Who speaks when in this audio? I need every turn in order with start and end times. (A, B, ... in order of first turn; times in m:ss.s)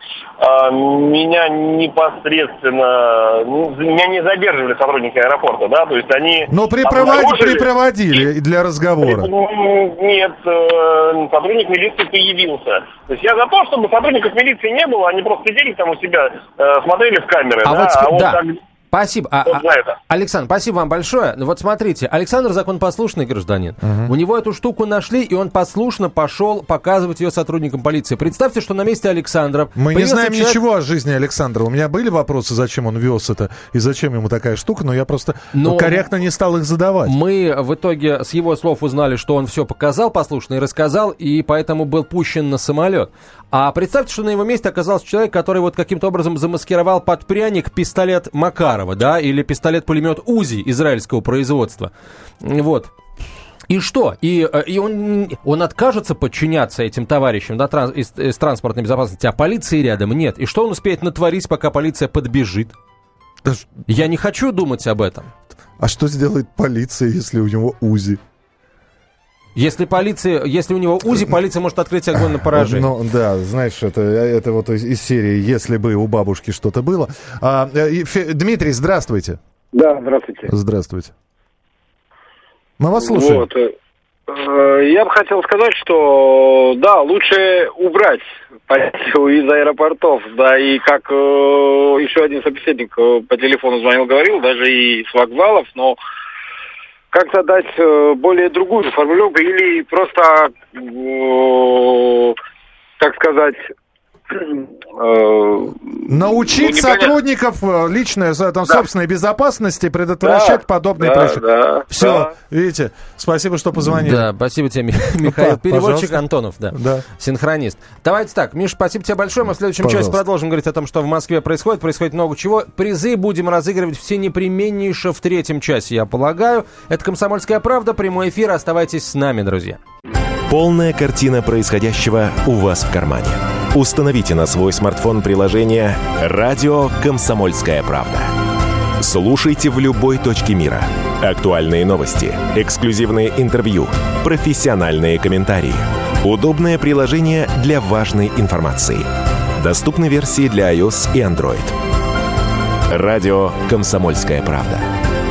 0:00.4-0:07.7 A
0:06.5-0:09.3 B
0:09.0-0:18.6 A
0:17.6-0:30.6 C
0:19.5-0:20.0 A
0:23.8-0:24.1 B
0:29.8-0:37.2 B
0:35.5-0:36.0 C
0:37.0-0:51.9 C
0:52.4-0:52.9 C
0:53.7-1:02.7 C
1:03.9-1:05.3 C
1:05.8-1:08.2 B
1:09.6-1:12.9 C
1:12.4-1:19.4 B
1:19.7-1:20.5 D
1:20.5-1:21.1 B
1:22.8-1:23.5 B
1:23.0-1:23.7 D
1:24.3-1:36.0 D
1:37.1-1:42.4 D
1:43.0-1:43.7 D
1:44.3-1:47.2 D
1:46.1-1:54.3 B
1:50.2-1:52.3 D
1:53.9-2:09.8 C
1:55.2-1:57.0 B
1:59.8-2:00.2 B
2:10.5-2:18.3 E
2:19.0-2:31.8 E
2:32.9-2:34.9 E